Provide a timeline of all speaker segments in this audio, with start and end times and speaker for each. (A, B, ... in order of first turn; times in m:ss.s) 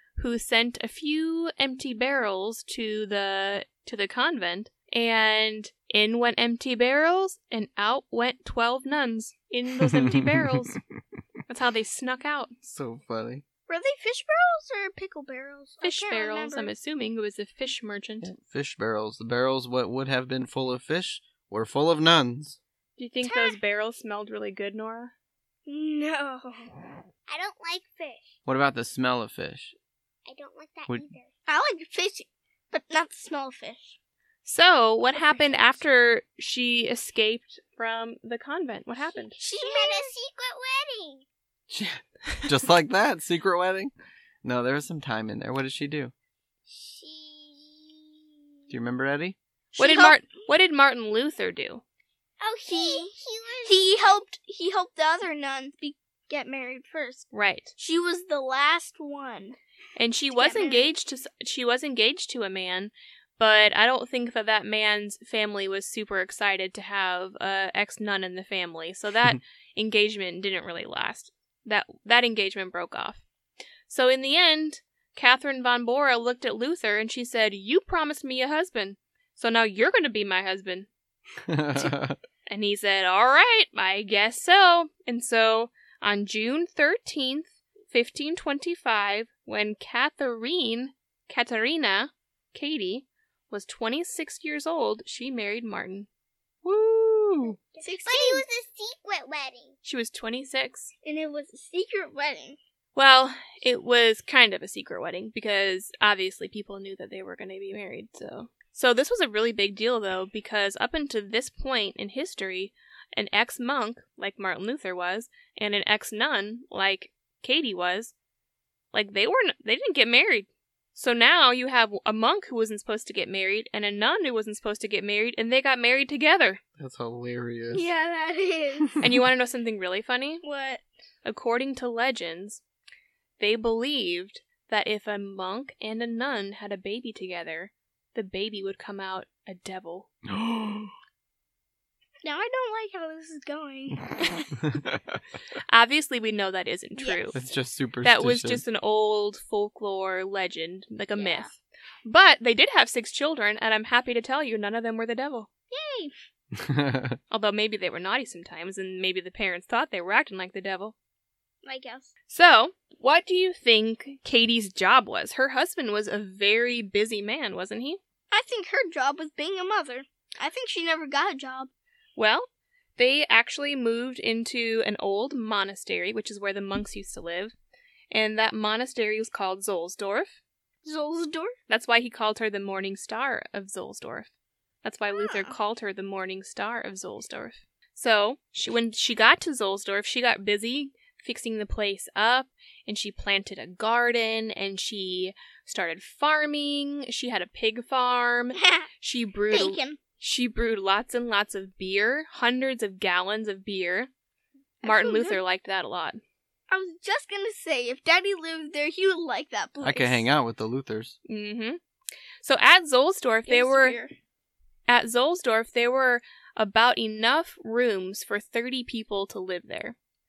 0:00.2-0:10.8 A
0:10.0-0:10.6 B
0:11.5-0:12.5 A
0:12.6-0:13.4 B
0:13.7-0:16.7 C
0:15.8-0:18.3 A
0:18.2-0:22.6 B
0:23.0-0:25.1 A
0:23.2-0:23.6 C
0:25.7-0:26.8 C
0:27.3-0:28.3 D
0:28.5-0:29.8 B
0:30.2-0:31.3 D
0:31.5-0:34.0 C
0:34.4-0:39.4 A
0:39.1-0:41.2 D
0:39.4-0:40.2 C
0:41.7-0:43.9 B
0:44.4-0:46.1 B
0:46.7-0:48.3 D
0:48.7-0:49.4 B
0:49.8-0:50.3 C
0:49.8-0:51.8 A
0:52.4-0:59.6 C
0:52.6-0:54.2 D
0:57.3-0:57.7 A
1:00.0-1:13.2 A
1:00.3-1:00.9 C
1:13.9-1:20.9 A
1:21.5-1:22.2 B
1:22.5-1:36.1 A
1:36.6-1:37.6 A
1:37.7-1:39.7 D
1:37.8-1:38.4 C
1:39.8-1:40.9 A
1:41.0-1:42.6 C
1:43.0-1:58.1 A
1:58.9-2:06.6 A
2:06.8-2:07.9 B
2:07.7-2:08.9 C
2:09.0-2:10.4 A
2:10.4-2:10.8 C
2:11.2-2:12.6 A
2:13.4-2:20.1 A
2:20.3-2:20.9 B
2:22.2-2:24.1 C
2:24.6-2:25.2 B
2:25.7-2:27.4 A
2:27.0-2:27.4 C
2:27.3-2:28.6 B
2:28.0-2:35.5 A
2:31.2-2:31.5 C
2:35.7-2:36.1 C
2:36.6-2:37.2 B
2:37.3-2:41.0 A
2:41.6-2:42.1 C
2:42.3-2:48.0 A
2:48.3-2:51.7 C
2:52.2-2:57.6 A
2:58.1-3:00.4 A
3:00.8-3:01.5 C
3:01.7-3:04.3 A
3:04.8-3:24.1 A
3:05.1-3:05.5 C
3:18.6-3:18.9 C
3:19.5-3:20.0 C
3:24.8-3:25.4 C
3:24.8-3:26.2 A
3:26.7-3:30.3 C
3:29.8-3:31.2 B
3:31.2-3:31.8 A
3:32.4-3:34.0 A
3:33.5-3:34.1 C
3:34.9-3:40.0 A